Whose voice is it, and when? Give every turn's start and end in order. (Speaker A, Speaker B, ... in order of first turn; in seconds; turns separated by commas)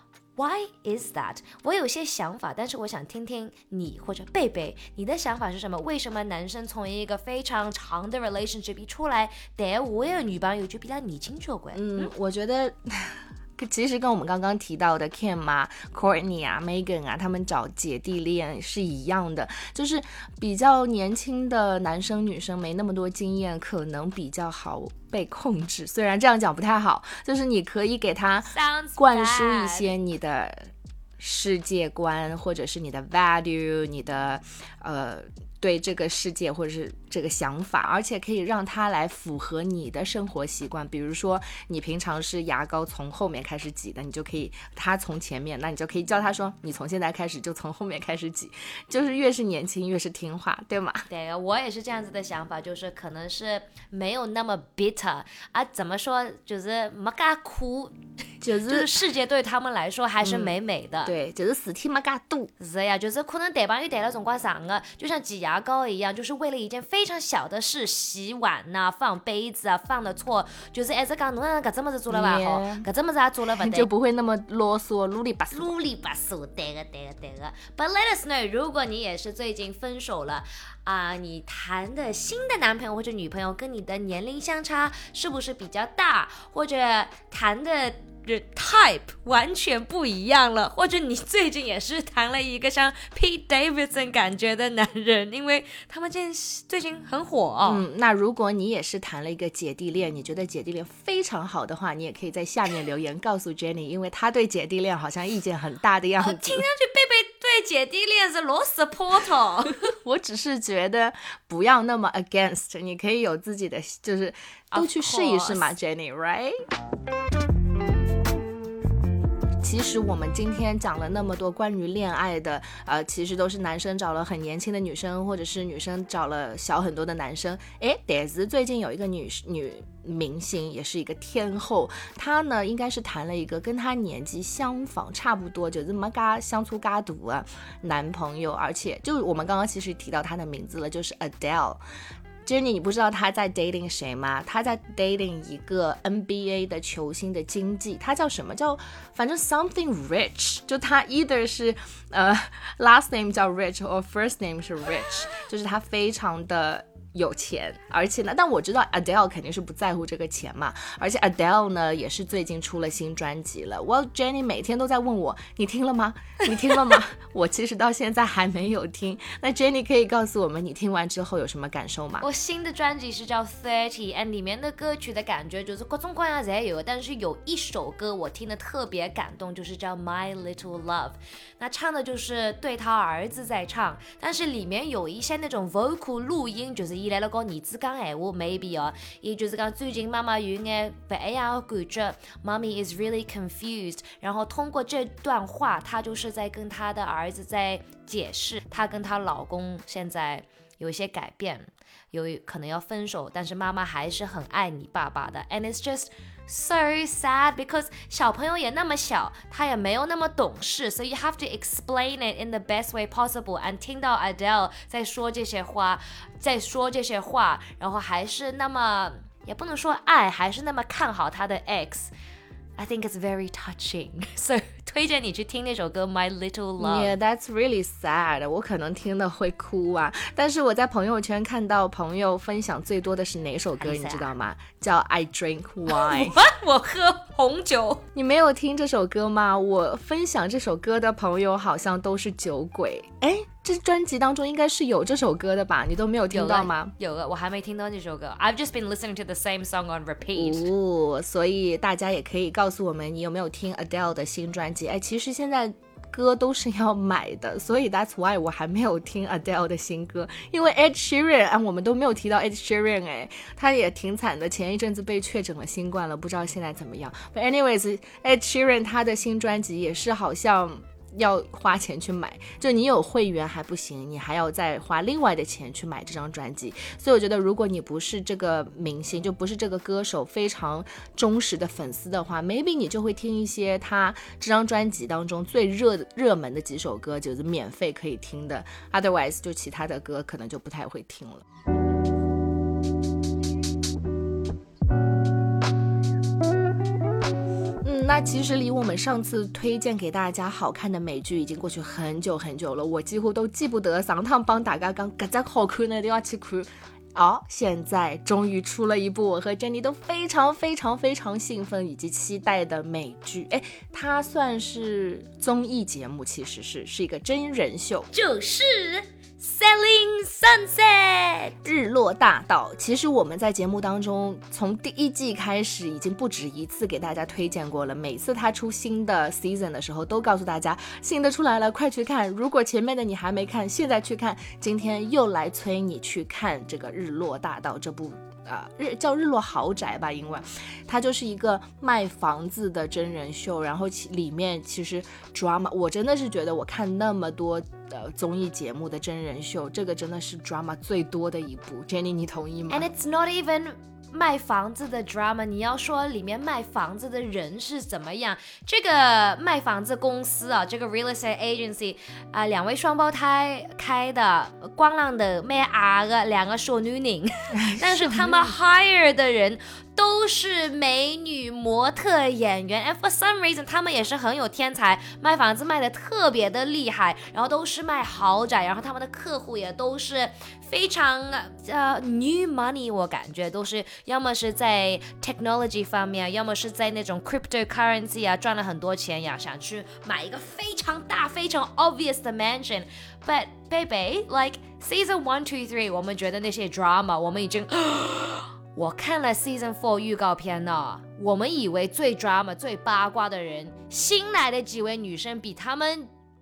Speaker A: 0.4-12.1, Speaker B: 11.7-30.6, Speaker A: 28.5-29.9, Speaker B: 31.2-51.1, Speaker A: 51.1-58.0, Speaker B: 58.4-58.9, Speaker A: 58.6-61.1, Speaker B: 60.2-62.5, Speaker A: 62.6-73.9, Speaker B: 72.1-72.9, Speaker B: 73.6-75.7, Speaker A: 75.5-97.8, Speaker B: 97.7-106.7, Speaker A: 106.2-109.9, Speaker B: 109.9-116.5, Speaker A: 114.7-115.8, Speaker B: 119.6-141.8, Speaker B: 142.5-172.3, Speaker A: 172.2-222.1, Speaker A: 222.8-227.2, Speaker B: 226.8-236.4, Speaker A: 233.8-234.3, Speaker A: 235.9-238.0, Speaker B: 238.2-246.9, Speaker A: 246.3-250.7, Speaker B: 250.4-291.4, Speaker B: 297.8-318.1, Speaker A: 318.1-321.6, Speaker B: 321.6-352.9, Speaker A: 352.7-406.1, Speaker B: 367.6-368.5